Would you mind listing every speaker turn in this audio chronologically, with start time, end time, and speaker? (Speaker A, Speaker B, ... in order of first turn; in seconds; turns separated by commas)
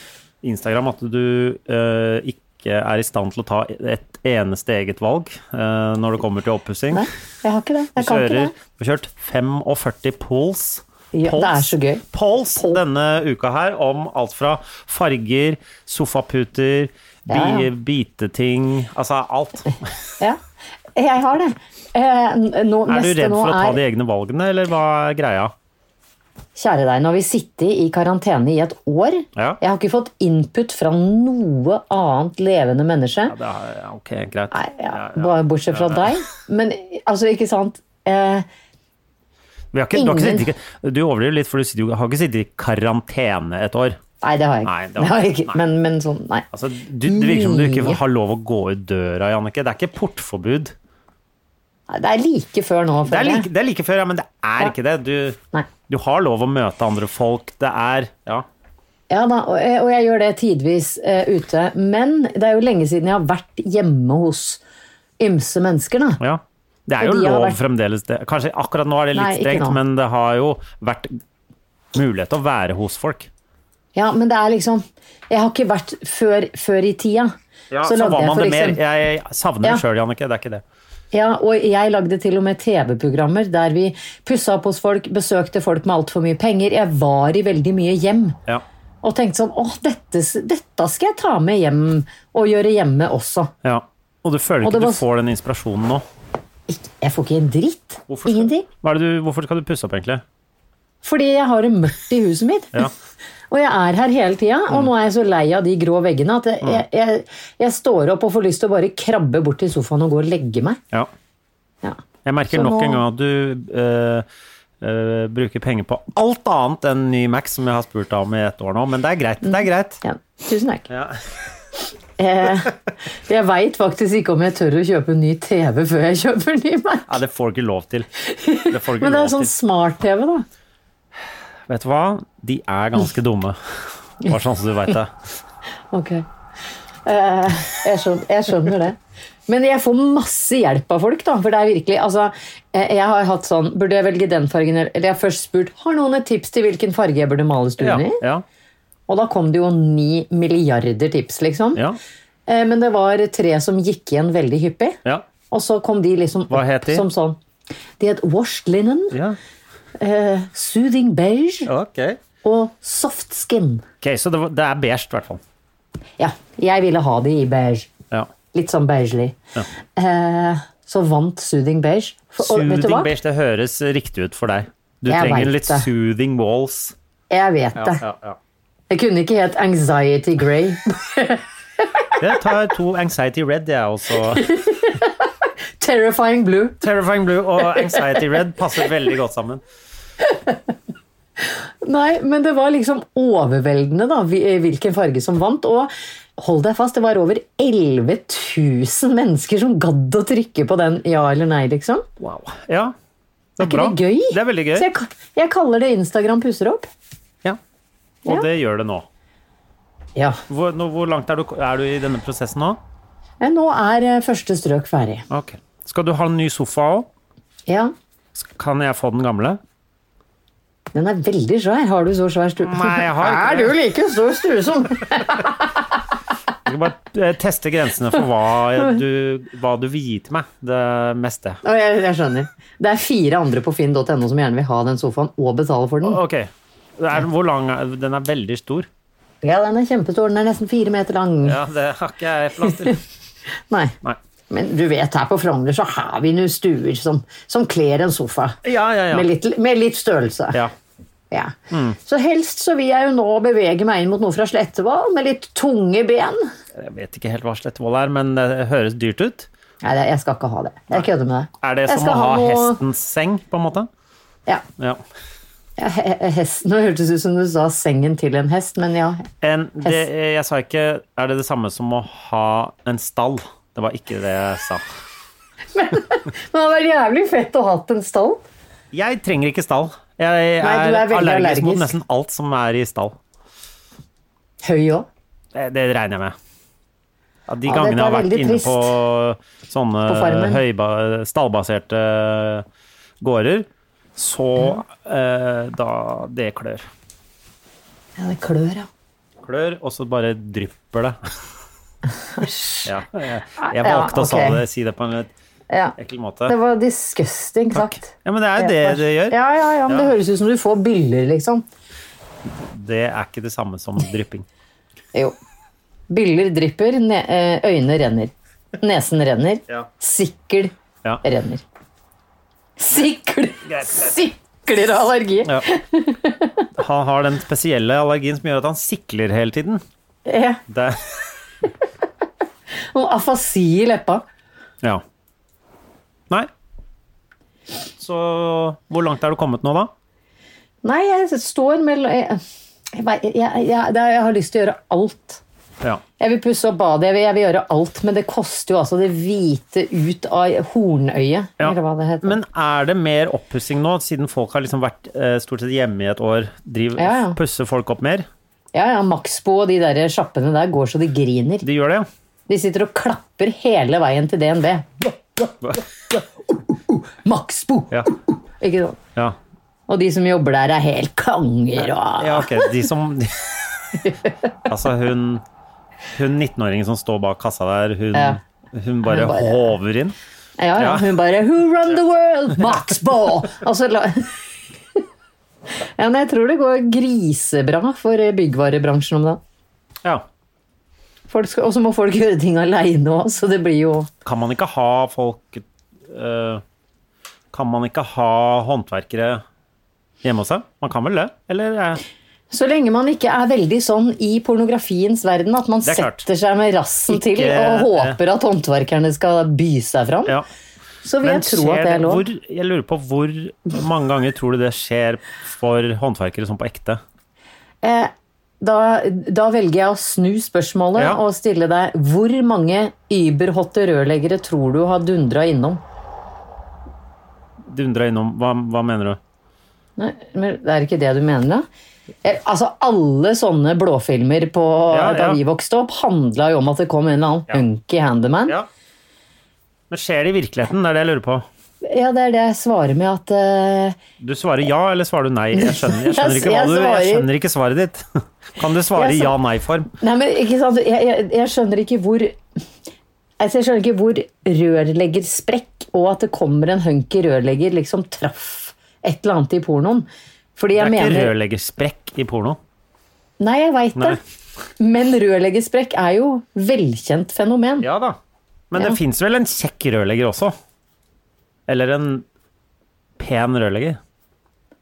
Speaker A: 0.4-7.0, Speaker B: 6.9-8.5, Speaker A: 8.0-19.9, Speaker B: 11.1-12.8, Speaker B: 17.3-17.7, Speaker B: 20.9-23.8, Speaker A: 22.9-25.5, Speaker B: 26.6-33.3, Speaker A: 33.3-36.1, Speaker B: 34.5-38.5, Speaker A: 39.7-44.0, Speaker B: 39.9-40.5, Speaker B: 44.2-46.4, Speaker A: 44.6-45.6, Speaker A: 46.5-50.7, Speaker B: 47.1-48.0, Speaker B: 51.9-53.5, Speaker A: 53.0-55.4, Speaker A: 55.9-58.4, Speaker B: 59.1-64.6, Speaker B: 65.2-66.2, Speaker A: 66.2-71.1, Speaker B: 67.0-67.6, Speaker B: 69.1-69.8, Speaker A: 71.9-73.3, Speaker B: 73.9-77.3, Speaker A: 77.7-80.6, Speaker B: 77.8-78.8, Speaker B: 81.1-88.4, Speaker B: 89.0-93.5, Speaker A: 93.6-96.0, Speaker B: 94.6-95.0, Speaker B: 96.7-98.7, Speaker A: 98.1-100.2, Speaker B: 101.0-102.9, Speaker B: 103.5-110.8, Speaker A: 112.2-114.2, Speaker B: 112.5-113.0, Speaker A: 114.8-120.0, Speaker B: 120.0-120.8, Speaker A: 120.9-121.2, Speaker B: 122.2-122.8, Speaker B: 123.3-127.1, Speaker A: 127.1-128.1, Speaker B: 128.3-130.4, Speaker A: 128.7-129.5, Speaker A: 131.7-133.6, Speaker A: 134.2-135.1, Speaker B: 135.9-136.2, Speaker B: 137.1-139.0, Speaker B: 139.5-148.2, Speaker A: 147.8-148.4, Speaker B: 149.1-151.8, Speaker B: 152.5-155.0, Speaker B: 155.5-157.4, Speaker A: 156.5-157.0, Speaker B: 158.0-159.2, Speaker A: 159.1-159.4, Speaker B: 160.0-161.7, Speaker A: 161.7-162.2, Speaker B: 162.4-163.8, Speaker A: 164.0-165.4, Speaker B: 166.2-167.9, Speaker B: 168.5-169.3, Speaker B: 169.9-173.1, Speaker A: 172.4-176.9, Speaker B: 175.1-175.9, Speaker B: 177.3-178.0, Speaker A: 177.8-178.4, Speaker B: 178.9-181.4, Speaker A: 182.2-184.5, Speaker B: 184.3-185.2, Speaker B: 185.8-186.8, Speaker A: 186.8-189.6, Speaker B: 190.3-190.6, Speaker B: 191.8-202.1, Speaker A: 202.2-202.9, Speaker A: 203.6-204.9, Speaker B: 203.6-206.9, Speaker A: 208.2-209.1, Speaker A: 210.5-212.8, Speaker B: 213.4-215.2, Speaker A: 215.3-217.1, Speaker B: 217.7-217.9, Speaker A: 218.3-219.6, Speaker B: 220.9-225.7, Speaker A: 222.6-223.7, Speaker A: 226.7-231.6, Speaker B: 231.6-236.2, Speaker A: 236.0-238.9, Speaker B: 239.4-241.6, Speaker A: 241.4-243.0, Speaker B: 244.5-248.6, Speaker A: 248.6-249.3, Speaker B: 249.1-250.6, Speaker B: 251.3-256.5, Speaker A: 251.7-252.0, Speaker A: 256.8-259.5, Speaker B: 259.8-262.8, Speaker A: 261.6-263.9, Speaker B: 265.8-269.3, Speaker A: 269.4-274.8, Speaker B: 275.7-278.4, Speaker A: 278.9-283.1, Speaker B: 280.6-281.9, Speaker B: 284.6-285.1, Speaker A: 285.5-286.3, Speaker A: 287.5-292.6, Speaker B: 287.6-288.9, Speaker B: 290.1-290.6, Speaker A: 293.2-296.8, Speaker B: 298.2-298.9, Speaker A: 299.4-301.2, Speaker B: 302.4-302.9, Speaker A: 302.8-305.3, Speaker B: 303.6-304.6, Speaker B: 305.7-305.9, Speaker A: 306.0-306.5, Speaker B: 306.5-311.6, Speaker A: 307.7-310.1, Speaker A: 312.6-314.4, Speaker B: 316.1-320.7, Speaker B: 321.2-321.6, Speaker B: 322.8-326.6, Speaker A: 323.7-324.1, Speaker A: 326.8-329.8, Speaker B: 330.3-330.6, Speaker A: 330.7-331.1, Speaker B: 332.9-334.2, Speaker A: 338.0-339.9, Speaker B: 340.8-342.4, Speaker B: 342.9-345.4, Speaker B: 346.2-352.4, Speaker A: 351.6-358.2, Speaker B: 357.0-357.4, Speaker B: 358.7-361.6, Speaker A: 361.6-362.1, Speaker B: 362.5-365.5, Speaker B: 366.7-368.1, Speaker B: 368.6-369.0, Speaker B: 369.9-372.7, Speaker A: 372.2-373.6, Speaker A: 374.7-375.4, Speaker A: 376.1-380.1, Speaker B: 378.1-378.4, Speaker B: 379.0-379.8, Speaker B: 380.6-384.3, Speaker A: 380.8-381.0, Speaker B: 385.9-389.4, Speaker B: 391.3-394.1, Speaker A: 394.2-396.6, Speaker A: 397.5-399.4, Speaker A: 400.2-402.0, Speaker B: 402.5-410.3, Speaker A: 405.8-406.2, Speaker A: 407.1-408.2, Speaker B: 411.0-412.2, Speaker A: 411.2-417.0, Speaker B: 417.8-425.8, Speaker A: 427.7-429.2, Speaker B: 430.0-431.6, Speaker B: 432.2-438.5, Speaker A: 434.9-435.4, Speaker A: 439.9-441.4, Speaker B: 441.8-444.0, Speaker A: 444.2-448.0, Speaker B: 445.5-447.3, Speaker A: 448.6-449.9, Speaker B: 448.9-449.3, Speaker B: 450.0-452.4, Speaker B: 453.4-461.3, Speaker A: 460.8-462.6, Speaker B: 463.4-464.2, Speaker B: 464.8-467.9, Speaker A: 467.8-468.2, Speaker A: 468.7-470.5, Speaker A: 471.7-472.2, Speaker A: 473.2-474.0